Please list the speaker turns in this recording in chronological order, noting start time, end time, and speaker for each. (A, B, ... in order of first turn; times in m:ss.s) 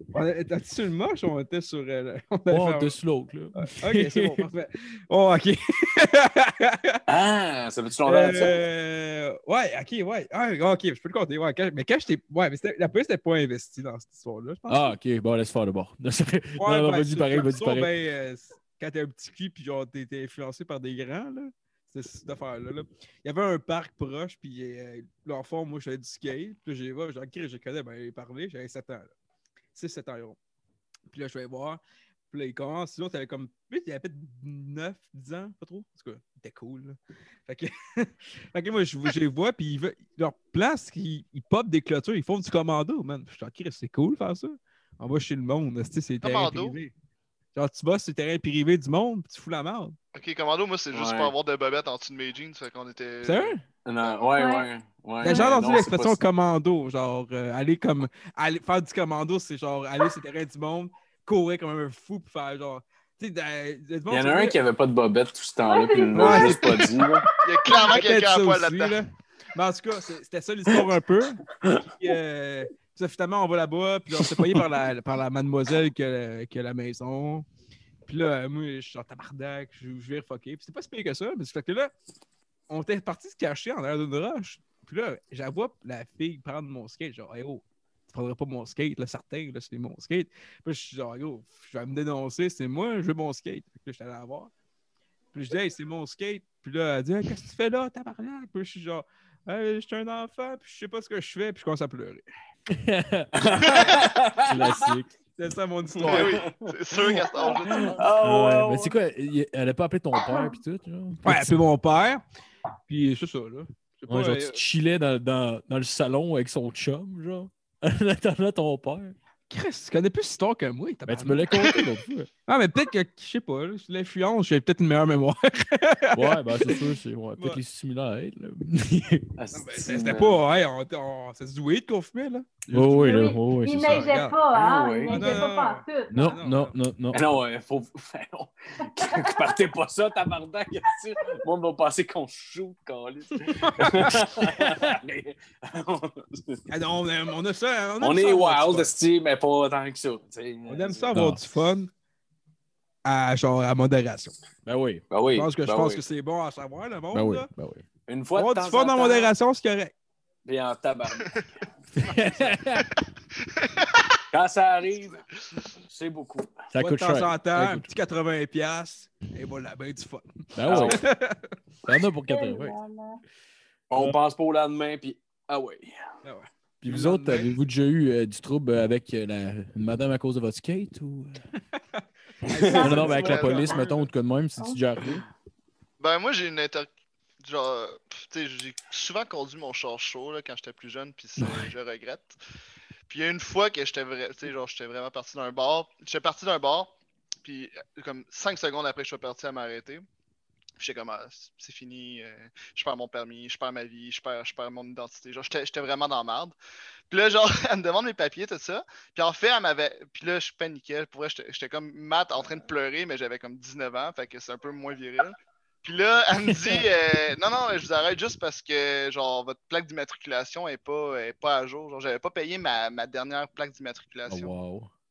0:00.1-0:03.0 A
0:02.5-0:04.5 B
0:03.6-0:07.0 A
0:07.1-0:08.6 C
0:08.0-0:14.8 A
0:14.7-0:17.9 B
0:16.6-0:29.1 A
0:29.8-0:30.4 A
0:31.1-0:46.9 A
0:46.2-0:46.8 D
0:47.5-0:50.0 A
0:50.1-0:53.5 D
0:50.9-0:51.3 C
0:53.2-0:53.6 A
0:53.8-0:56.2 C
0:54.4-0:54.7 E
0:55.2-1:04.6 A
0:55.2-0:55.5 E
1:04.1-1:07.2 C
1:05.6-1:08.0 E
1:06.1-1:06.9 A
1:07.4-1:09.0 D
1:07.7-1:11.4 A
1:12.0-1:17.5 A
1:14.2-1:14.5 C
1:18.1-1:21.9 A
1:22.7-1:34.5 A
1:35.3-1:42.3 A
1:42.7-1:45.2 B
1:43.4-1:44.9 C
1:43.6-1:44.0 D
1:45.4-1:46.5 A
1:46.0-1:49.0 C
1:46.0-1:48.1 D
1:48.2-1:51.6 B
1:51.2-1:52.2 A
1:52.9-1:54.6 A
1:54.1-1:59.2 B
1:59.5-2:01.8 A
2:01.1-2:02.3 B
2:02.5-2:07.6 A
2:06.1-2:09.3 B
2:09.4-2:10.4 C
2:09.5-2:14.4 A
2:12.7-2:14.1 B
2:13.0-2:16.4 E
2:14.5-2:15.4 C
2:15.1-2:16.8 A
2:16.1-2:17.2 B
2:17.1-2:26.6 C
2:18.8-2:19.6 E
2:23.5-2:24.3 A
2:24.5-2:25.0 B
2:26.7-2:28.9 A
2:28.0-2:31.2 C
2:30.7-2:31.9 A
2:31.1-2:31.4 B
2:33.0-2:34.4 A
2:34.7-2:35.1 B
2:35.1-2:36.0 C
2:35.3-2:37.5 A
2:37.1-2:37.8 B
2:38.1-2:39.3 C
2:38.4-2:39.9 A
2:40.5-2:41.7 C
2:42.0-2:42.9 B
2:42.8-2:44.2 D
2:44.3-2:45.2 C
2:45.8-2:46.7 C
2:46.7-2:47.9 B
2:46.8-2:51.5 A
2:50.6-2:51.0 B
2:50.7-2:51.0 C
2:51.8-2:52.8 B
2:52.3-2:53.2 E
2:53.9-2:56.1 C
2:56.2-2:57.5 A
2:56.8-3:01.4 B
3:02.0-3:04.1 A
3:02.5-3:03.0 C
3:02.7-3:03.6 E
3:02.8-3:05.2 B
3:06.0-3:06.9 D
3:07.4-3:12.4 D
3:11.4-3:11.7 B
3:13.1-3:16.9 D
3:17.4-3:20.1 D
3:20.8-3:26.6 D
3:27.1-3:44.5 D
3:44.3-3:44.9 B